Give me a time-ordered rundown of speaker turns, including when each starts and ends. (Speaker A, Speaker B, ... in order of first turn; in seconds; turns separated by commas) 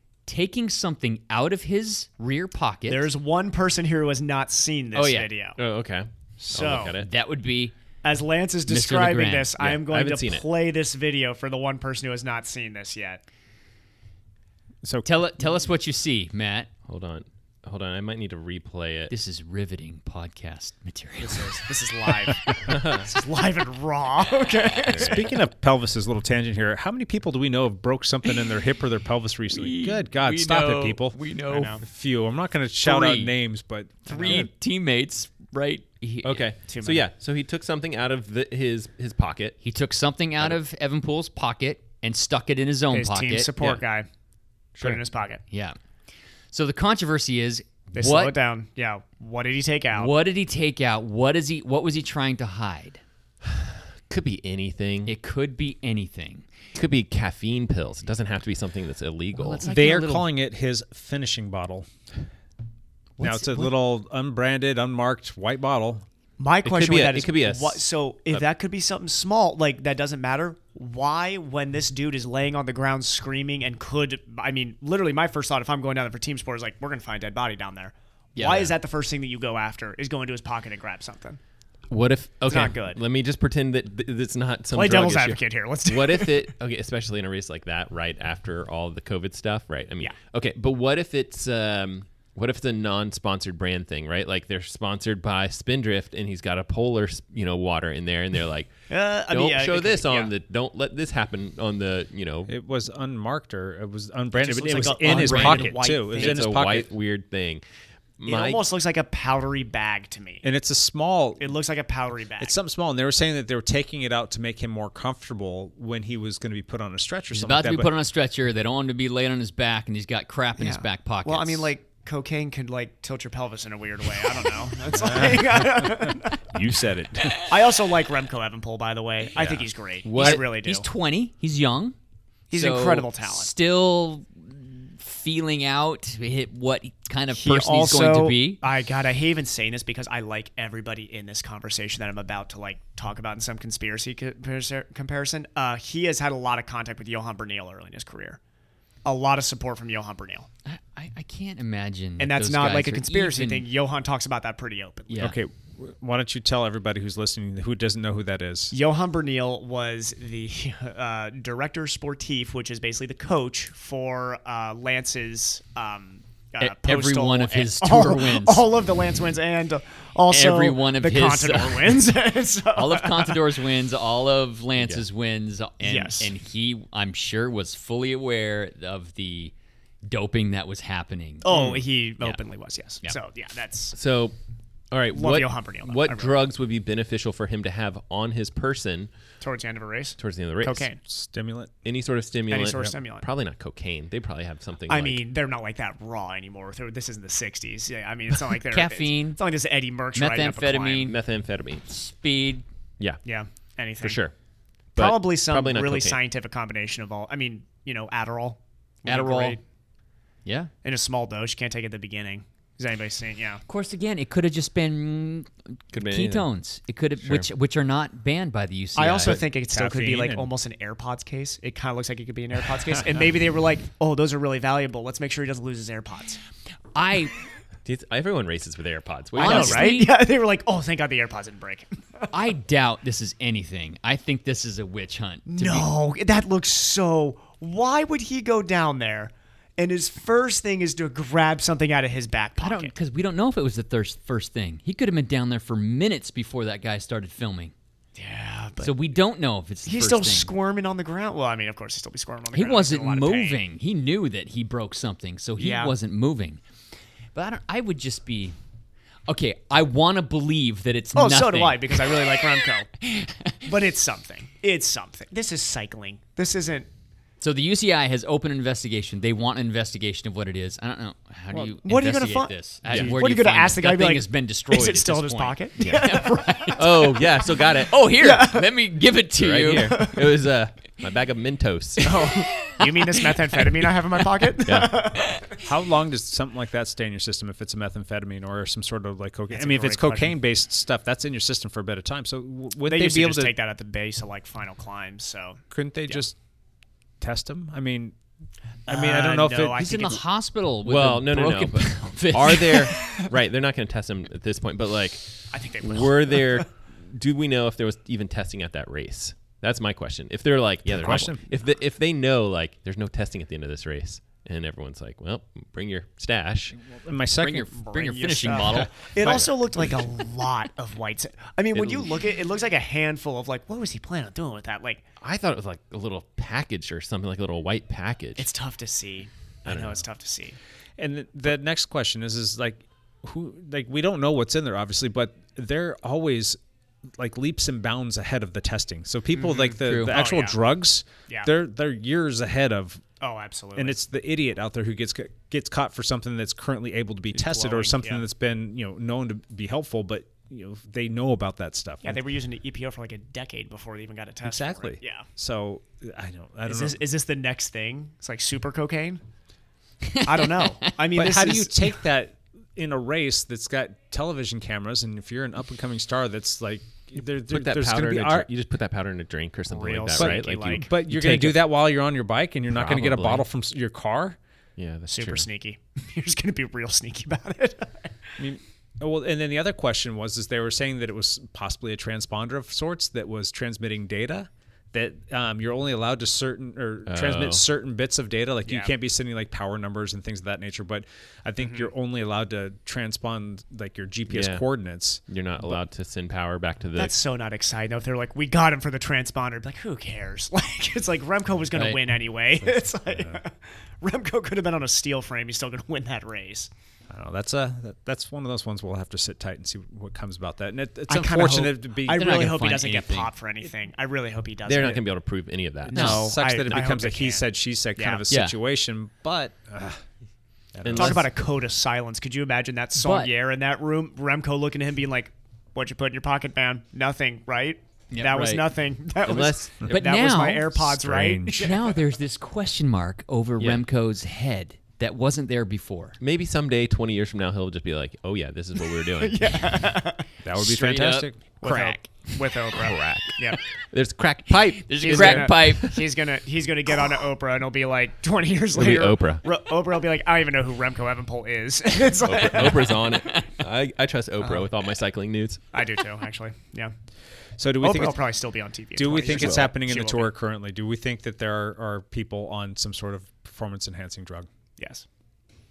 Speaker A: 0.3-3.1, Speaker B: 2.9-5.6, Speaker A: 4.9-5.3, Speaker C: 5.6-7.1, Speaker B: 6.4-7.0, Speaker A: 7.0-7.7, Speaker B: 8.0-13.2, Speaker A: 8.7-9.6, Speaker C: 9.6-10.5, Speaker D: 14.8-15.1, Speaker A: 15.1-16.7, Speaker C: 16.9-19.1, Speaker A: 19.1-21.6, Speaker B: 21.2-25.2, Speaker D: 22.3-22.6, Speaker C: 22.7-23.1, Speaker C: 24.9-25.3, Speaker D: 25.0-31.2, Speaker A: 29.5-31.8, Speaker B: 31.5-31.8, Speaker D: 31.8-34.5, Speaker A: 32.8-33.3, Speaker B: 34.1-34.5, Speaker A: 34.1-36.5, Speaker C: 36.2-39.6, Speaker B: 36.7-37.1, Speaker A: 39.6-43.8, Speaker B: 42.9-44.1, Speaker B: 44.8-45.4, Speaker A: 45.5-45.8, Speaker A: 46.5-48.4, Speaker B: 48.0-50.1, Speaker A: 49.9-53.0, Speaker C: 53.5-55.1, Speaker A: 55.0-56.5, Speaker C: 56.8-59.7, Speaker A: 59.3-60.3, Speaker D: 59.6-61.9, Speaker A: 63.2-63.6, Speaker D: 63.2-66.0, Speaker B: 66.4-81.4, Speaker C: 66.6-68.5, Speaker A: 78.4-78.8, Speaker C: 81.9-98.8, Speaker B: 82.5-83.0, Speaker B: 84.7-86.5, Speaker B: 98.9-100.3, Speaker C: 99.3-102.5, Speaker D: 102.5-106.9, Speaker B: 104.4-106.5, Speaker A: 104.8-105.8, Speaker C: 106.2-107.6, Speaker C: 108.2-108.6, Speaker B: 108.3-110.5, Speaker D: 110.4-111.5, Speaker B: 111.4-112.6, Speaker D: 112.4-117.9, Speaker A: 117.3-121.7, Speaker B: 120.6-126.4, Speaker D: 124.9-127.5, Speaker B: 127.4-130.9, Speaker C: 129.4-129.6, Speaker D: 130.1-130.4, Speaker A: 130.1-131.9, Speaker B: 132.5-133.5, Speaker A: 132.5-138.6, Speaker B: 137.3-148.4, Speaker B: 149.1-150.5, Speaker A: 150.7-153.7, Speaker B: 152.2-155.3, Speaker A: 155.1-155.4, Speaker D: 155.2-158.7, Speaker B: 158.7-173.4, Speaker A: 166.6-168.6, Speaker A: 170.3-172.1, Speaker A: 172.8-179.5, Speaker C: 174.8-175.0, Speaker B: 175.8-176.3, Speaker A: 180.1-181.5, Speaker B: 181.4-184.0, Speaker C: 181.5-181.8, Speaker C: 183.9-184.4, Speaker C: 184.9-189.1, Speaker B: 185.1-186.4, Speaker B: 189.4-191.0, Speaker C: 190.2-190.9, Speaker D: 191.1-191.7, Speaker C: 191.8-195.2, Speaker B: 192.5-193.3, Speaker B: 194.9-201.1, Speaker A: 198.7-199.4, Speaker A: 200.2-201.2, Speaker C: 201.0-201.8, Speaker A: 201.9-202.6, Speaker B: 203.2-204.2, Speaker C: 204.0-204.3, Speaker C: 204.9-206.2, Speaker B: 205.0-209.6, Speaker A: 209.1-209.6, Speaker A: 210.4-210.7, Speaker B: 210.8-213.6, Speaker A: 213.7-219.4, Speaker C: 215.9-216.5, Speaker C: 217.2-217.5, Speaker B: 219.0-226.4, Speaker D: 219.2-220.5, Speaker A: 226.9-227.3, Speaker C: 227.8-229.9, Speaker B: 229.4-232.3, Speaker A: 229.4-230.1, Speaker A: 232.3-235.9, Speaker B: 235.5-242.9, Speaker A: 242.6-247.7, Speaker B: 248.2-249.0, Speaker A: 248.8-250.5, Speaker B: 249.8-253.6, Speaker A: 252.5-256.6, Speaker B: 255.6-255.9, Speaker A: 257.4-258.6, Speaker A: 259.3-263.6, Speaker B: 261.1-262.9, Speaker B: 263.6-266.9, Speaker A: 267.4-280.1, Speaker B: 271.5-276.8, Speaker C: 272.9-273.2, Speaker C: 275.8-276.1, Speaker C: 276.8-278.0, Speaker B: 278.2-278.7, Speaker C: 279.4-282.2, Speaker B: 279.9-280.2, Speaker B: 282.0-285.5, Speaker A: 282.6-283.0, Speaker C: 284.7-285.1, Speaker D: 285.6-293.6, Speaker B: 289.5-290.4, Speaker B: 292.9-296.3, Speaker D: 295.7-296.4, Speaker D: 297.2-298.1, Speaker B: 298.9-300.2, Speaker D: 298.9-299.8, Speaker A: 299.8-303.3, Speaker C: 300.9-316.8, Speaker B: 305.5-306.7, Speaker D: 310.9-311.4, Speaker D: 316.8-317.8, Speaker A: 317.4-319.3, Speaker B: 317.8-325.0, Speaker C: 319.2-319.5, Speaker C: 321.7-322.2, Speaker C: 325.2-328.5, Speaker B: 328.4-330.6, Speaker C: 329.6-330.0, Speaker D: 331.0-336.6, Speaker D: 337.2-343.0, Speaker B: 339.3-340.6, Speaker A: 339.8-340.1, Speaker B: 343.2-344.0, Speaker D: 343.8-352.2, Speaker B: 347.3-348.2, Speaker B: 352.0-355.3, Speaker D: 354.4-357.0, Speaker B: 356.7-359.2, Speaker A: 360.1-360.9, Speaker B: 360.2-362.0, Speaker D: 361.1-368.5, Speaker C: 367.5-371.7, Speaker B: 369.7-370.9, Speaker D: 370.2-374.4, Speaker C: 372.7-373.5, Speaker C: 374.8-375.5, Speaker B: 375.1-378.1, Speaker D: 378.4-395.8, Speaker C: 387.1-387.6, Speaker B: 388.6-388.9, Speaker B: 391.6-391.9, Speaker C: 394.3-394.6, Speaker C: 395.3-397.1, Speaker B: 397.0-406.7, Speaker D: 402.7-403.4, Speaker D: 407.1-412.5, Speaker B: 411.1-415.0, Speaker A: 412.1-413.3, Speaker C: 414.7-416.2, Speaker D: 415.9-420.0, Speaker B: 415.9-418.2, Speaker A: 415.9-416.2, Speaker A: 418.3-418.6, Speaker D: 420.7-421.2, Speaker C: 420.8-421.2, Speaker B: 420.9-431.9, Speaker A: 423.0-423.3, Speaker A: 428.1-428.7, Speaker C: 429.2-429.9, Speaker A: 429.9-430.7, Speaker D: 430.7-431.6, Speaker A: 431.6-436.2, Speaker C: 433.6-433.8, Speaker C: 436.2-439.6, Speaker B: 439.2-440.3, Speaker D: 440.4-441.4, Speaker A: 440.6-442.4, Speaker B: 441.6-443.6, Speaker C: 442.7-445.9, Speaker A: 444.8-446.0, Speaker B: 445.0-453.0, Speaker C: 448.7-449.4, Speaker C: 452.2-455.6, Speaker B: 454.4-454.7, Speaker B: 455.7-456.9, Speaker D: 457.6-458.3, Speaker B: 457.8-460.3, Speaker D: 459.0-464.5, Speaker C: 459.3-459.7, Speaker B: 464.8-465.1